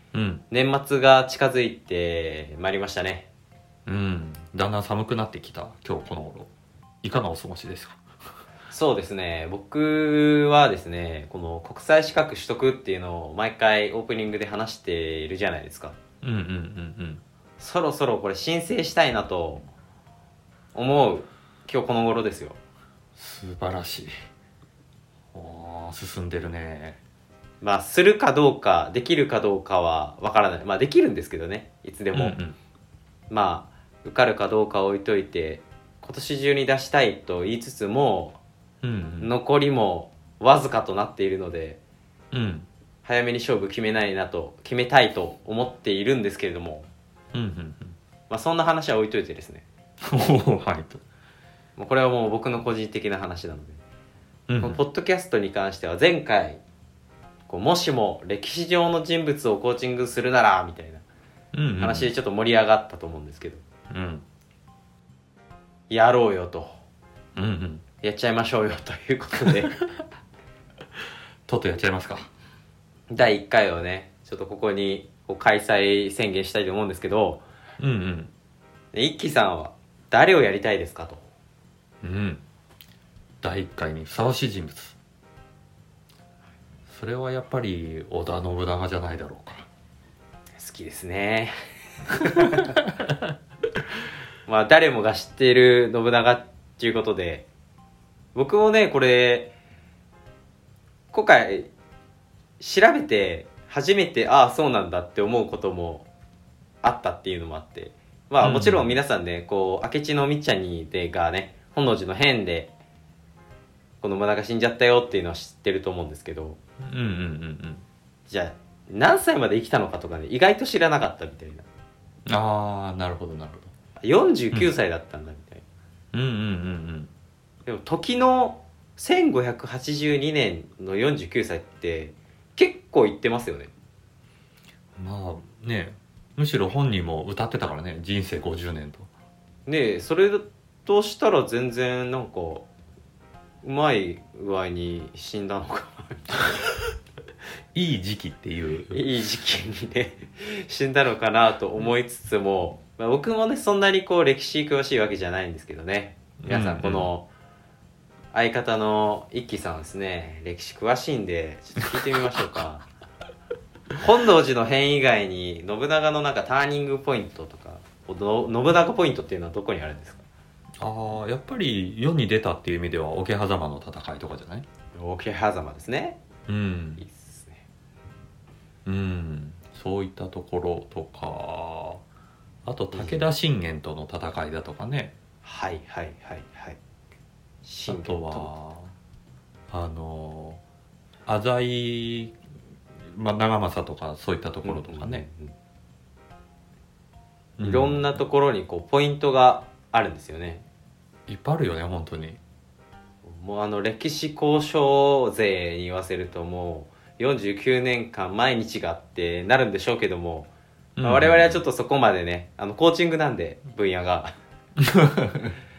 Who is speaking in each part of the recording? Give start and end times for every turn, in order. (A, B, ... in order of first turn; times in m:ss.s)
0:00.1-0:00.4 A
0:00.5-0:03.3 B
0:03.8-0:06.5 A
0:07.0-0:08.0 A
0:08.7-0:16.0 B
0:16.2-0:17.2 A
0:17.6-0:19.6 B
0:20.7-0:22.6 B
0:23.2-0:24.1 A
0:25.3-0:27.0 A
0:27.6-0:32.4 B
0:32.1-0:32.6 A
0:33.3-0:38.4 B
0:38.8-0:39.3 A
0:39.2-0:41.8 B
0:42.3-0:42.7 A
0:43.0-0:46.9 B
0:47.3-0:48.0 A
0:48.3-0:49.6 B
0:50.0-0:51.0 A
0:51.8-0:53.8 B
0:54.5-0:54.8 A
0:54.6-0:56.6 B
0:57.5-1:01.0 B
1:01.5-1:02.1 A
1:01.8-1:03.6 B
1:03.9-1:04.2 A
1:05.9-1:06.8 B
1:07.4-1:07.8 A
1:08.0-1:09.8 B
1:11.5-1:12.3 A
1:13.1-1:17.4 B
1:17.8-1:18.3 A
1:18.9-1:21.2 B
1:22.0-1:22.4 A
1:23.4-1:25.0 A
1:26.9-1:29.7 A
1:30.6-1:31.5 B
1:32.1-1:32.8 B
1:34.5-1:37.5 B
1:38.3-1:39.5 B
1:41.1-1:41.7 B
1:42.6-1:46.1 B
1:46.8-1:52.7 B
1:48.4-1:49.0 A
1:54.0-1:56.6 B
1:56.8-1:57.8 A
1:58.3-2:01.6 B
2:02.3-2:03.7 A
2:04.0-2:05.6 B
2:06.1-2:07.1 A
2:07.6-2:13.7 B
2:15.0-2:19.1 A
2:19.6-2:22.7 B
2:23.6-2:26.6 B
2:27.7-2:29.0 A
2:28.9-2:37.3 B
2:36.4-2:37.1 A
2:38.3-2:42.9 B
2:44.0-2:50.2 B
2:50.8-2:54.6 A
2:54.9-2:56.2 B
2:56.5-2:57.0 A
2:57.0-2:57.6 B
2:58.8-3:02.0 A
3:02.6-3:05.1 A
3:02.9-3:03.2 B
3:05.4-3:06.8 B
3:07.6-3:08.5 B
3:07.8-3:08.9 A
3:09.7-3:10.6 A
3:11.2-3:12.4 A
3:13.0-3:15.2 A
3:14.6-3:15.5 B
3:17.6-3:18.1 A
3:17.6-3:20.6 B
3:21.3-3:22.4 A
3:23.2-3:30.5 B
3:31.0-3:31.6 A
3:31.0-3:34.3 B
3:34.8-3:35.6 A